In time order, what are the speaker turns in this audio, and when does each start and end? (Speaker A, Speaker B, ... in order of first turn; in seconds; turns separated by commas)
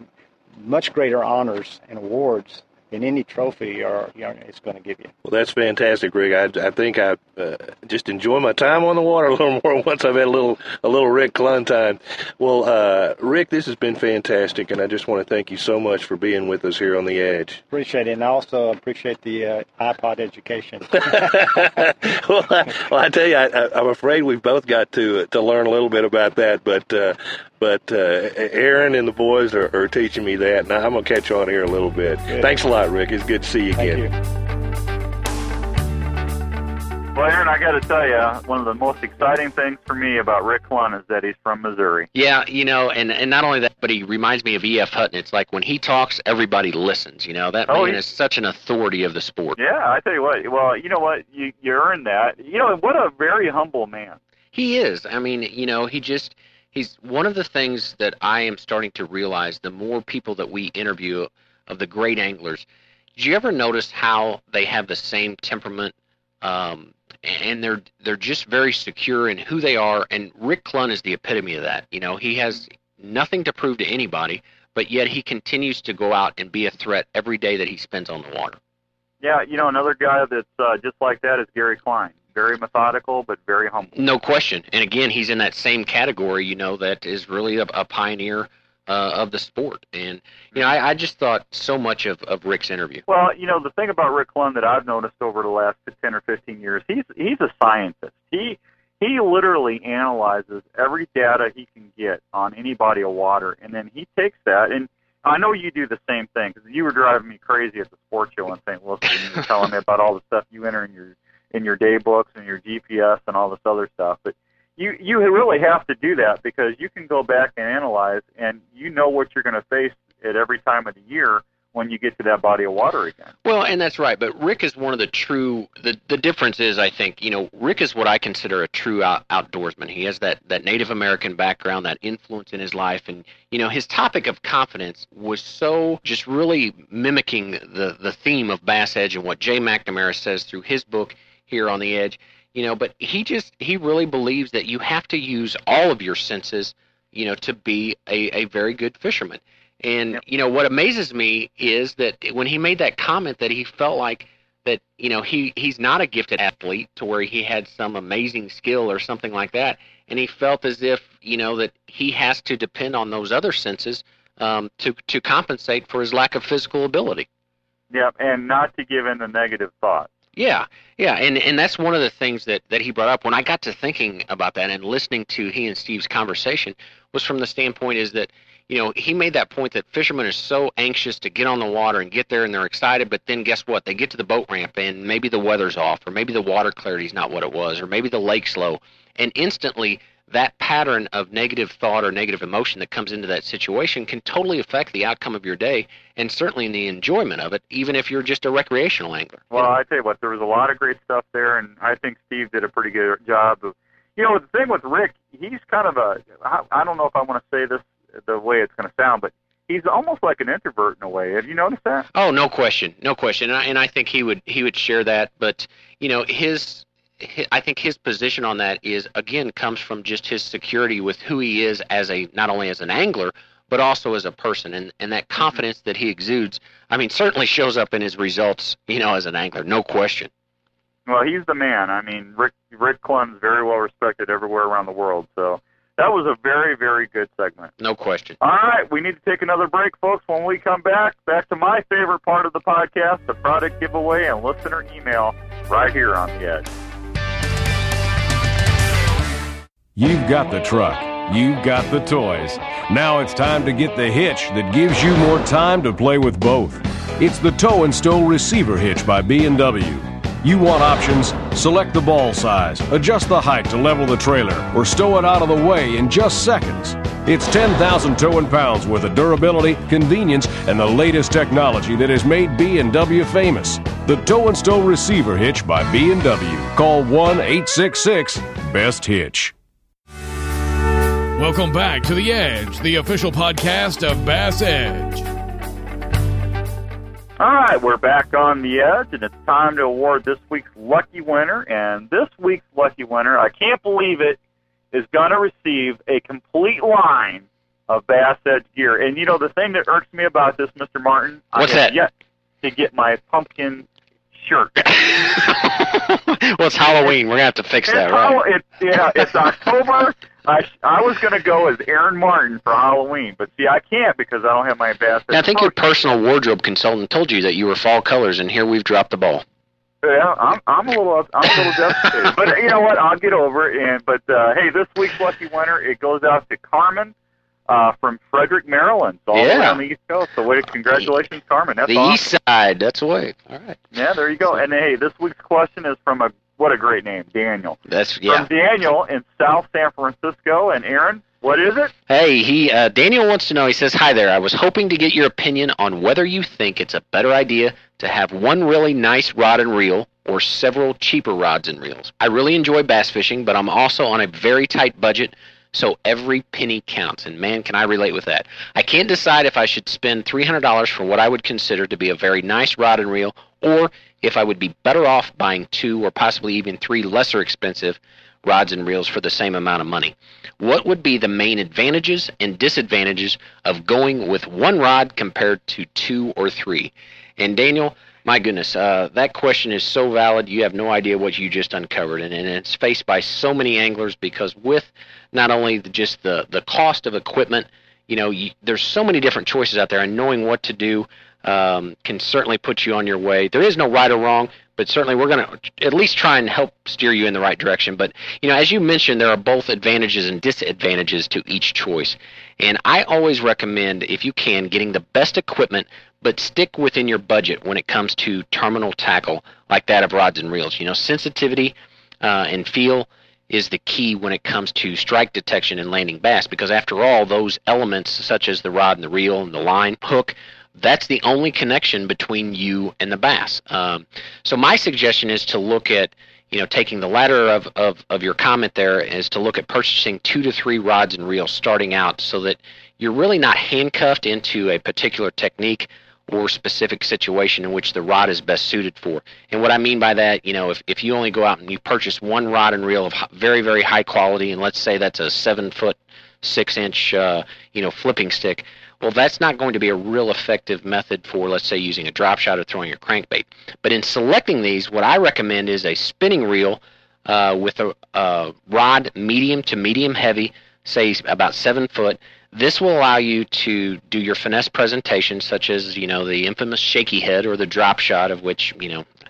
Speaker A: 0.6-5.1, Speaker B: 5.2-17.6, Speaker A: 17.7-21.7, Speaker B: 21.0-34.0, Speaker A: 32.3-32.5, Speaker A: 33.8-34.1, Speaker C: 37.1-42.1, Speaker D: 42.1-49.6, Speaker C: 47.7-48.0, Speaker C: 49.6-54.2, Speaker D: 54.5-78.6, Speaker C: 79.2-83.9, Speaker D: 84.0-93.0, Speaker C: 93.1-123.3, Speaker D: 123.4-167.3, Speaker C: 167.9-170.1, Speaker D: 170.4-199.7, Speaker C: 199.5-212.1, Speaker D: 212.1-230.3, Speaker C: 231.1-237.7, Speaker D: 237.8-238.4, Speaker C: 238.4-246.7, Speaker E: 249.9-279.5, Speaker F: 281.4-285.3, Speaker C: 287.4-294.4, Speaker C: 294.9-302.1, Speaker D: 301.6-302.0, Speaker C: 302.6-304.9, Speaker D: 304.9-308.4, Speaker C: 307.9-315.8, Speaker D: 315.3-319.4, Speaker C: 320.0-327.1, Speaker C: 327.7-332.2, Speaker D: 329.3-329.8, Speaker D: 331.9-333.8, Speaker C: 333.9-341.9, Speaker D: 337.9-338.5, Speaker D: 342.1-469.1